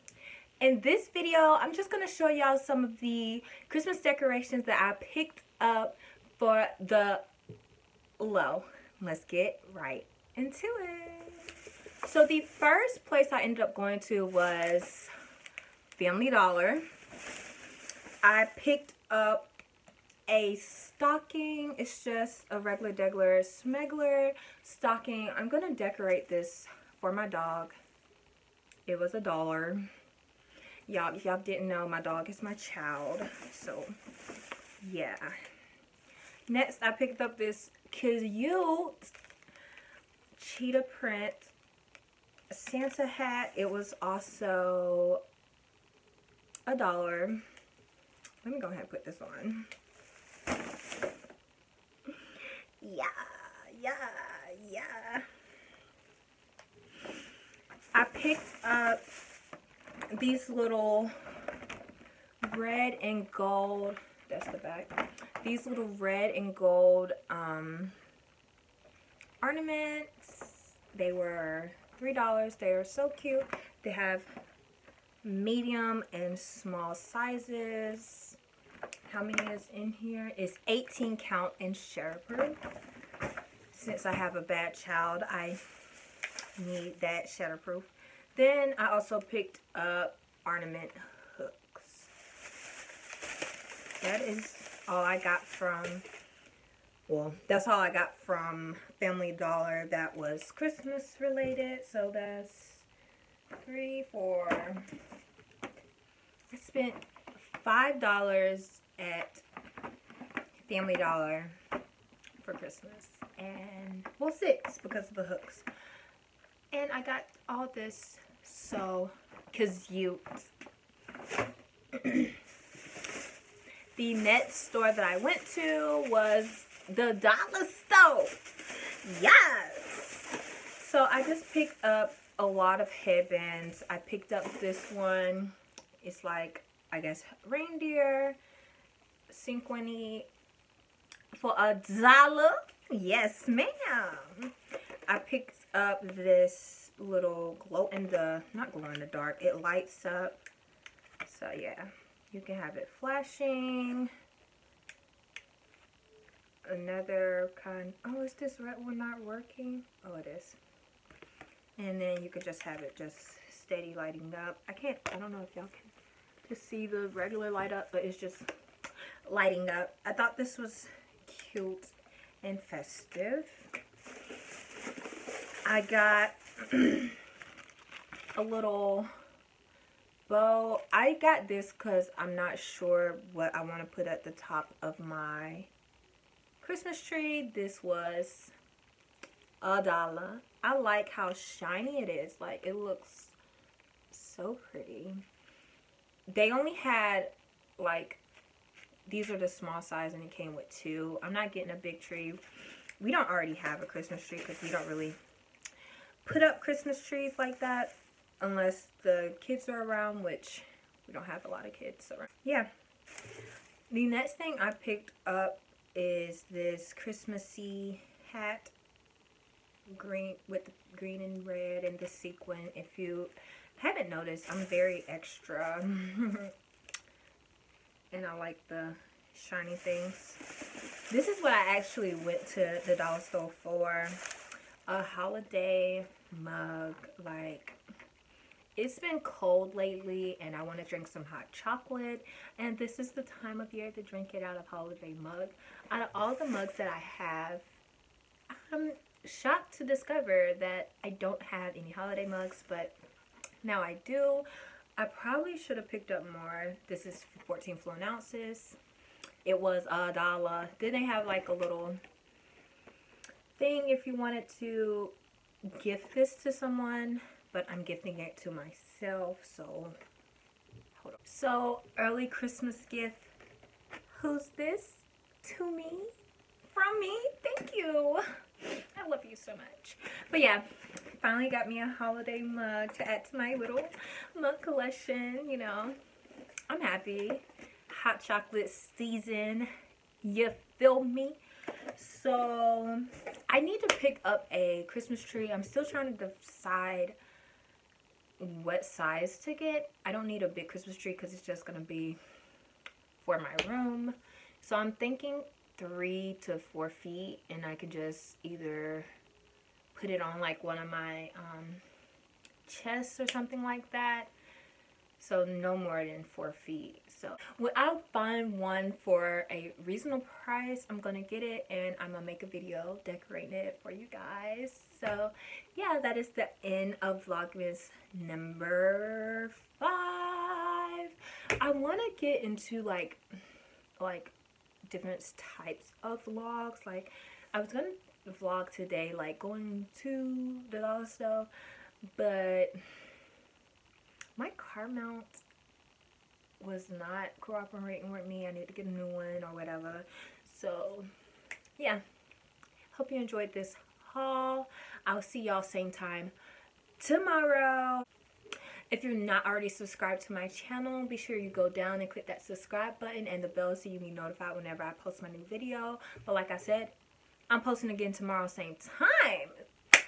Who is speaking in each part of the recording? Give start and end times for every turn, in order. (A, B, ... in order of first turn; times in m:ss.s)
0:00.6-0:07.2 A
0:08.2-0:11.5 A
0:12.0-0:15.1 A
0:15.9-0:16.8 A
0:18.2-0:19.5 A
0:20.3-0:27.7 A
0:28.8-0:29.9 A
0:30.8-0:34.0 A
0:34.8-0:35.4 A
0:36.5-0:39.1 A
0:40.3-0:41.5 A
0:42.5-0:45.2 A
0:46.7-0:47.4 A
0:48.4-0:49.7 A
0:52.8-0:55.3 A
0:57.9-0:59.0 A
1:00.1-1:01.1 A
1:02.4-1:07.9 A
1:09.4-1:14.3 A
1:15.2-1:18.4 A
1:19.0-1:22.6 A
1:23.7-1:25.6 A
1:26.6-1:32.1 A
1:34.0-1:36.1 A
1:37.1-1:42.9 A
1:43.6-1:44.9 A
1:46.5-1:49.4 A
1:50.6-1:51.6 A
1:52.4-1:55.7 A
1:56.7-2:00.5 A
2:01.9-2:02.4 A
2:03.9-2:08.5 A
2:09.0-2:18.4 A
2:19.3-2:20.3 A
2:21.3-2:24.5 A
2:25.1-2:30.4 A
2:31.2-2:34.1 A
2:36.6-2:40.6 A
2:41.8-2:45.9 A
2:46.4-2:48.5 A
2:49.2-2:53.7 A
2:55.6-2:57.2 A
2:58.3-2:59.1 A
3:00.3-3:05.7 A
3:06.6-3:08.5 A
3:09.6-3:13.4 A
3:14.1-3:15.2 A
3:16.3-3:18.2 A
3:19.1-3:22.4 A
3:23.0-3:25.2 A
3:26.2-3:32.7 A
3:33.9-3:38.7 A
3:39.9-3:46.5 A
3:48.1-3:50.4 A
3:51.1-3:54.2 A
3:54.8-3:57.8 A
3:58.8-4:07.6 A
4:08.5-4:13.0 A
4:13.6-4:18.8 A
4:19.4-4:22.0 A
4:23.6-4:25.1 A
4:25.7-4:30.0 A
4:30.9-4:33.3 A
4:34.1-4:36.1 A
4:36.7-4:46.0 A
4:46.7-4:49.7 A
4:50.2-4:51.4 A
4:51.9-4:57.2 A
4:58.4-5:02.2 A
5:03.2-5:09.1 A
5:09.9-5:11.8 A
5:12.6-5:14.3 A
5:15.2-5:33.2 A
5:34.0-5:34.3 A
5:34.9-5:41.5 A
5:42.2-5:42.8 A
5:44.4-5:45.4 A
5:46.6-5:51.1 A
5:52.9-5:56.3 A
5:57.0-5:58.1 A
5:58.9-6:06.9 A
6:07.5-6:09.6 A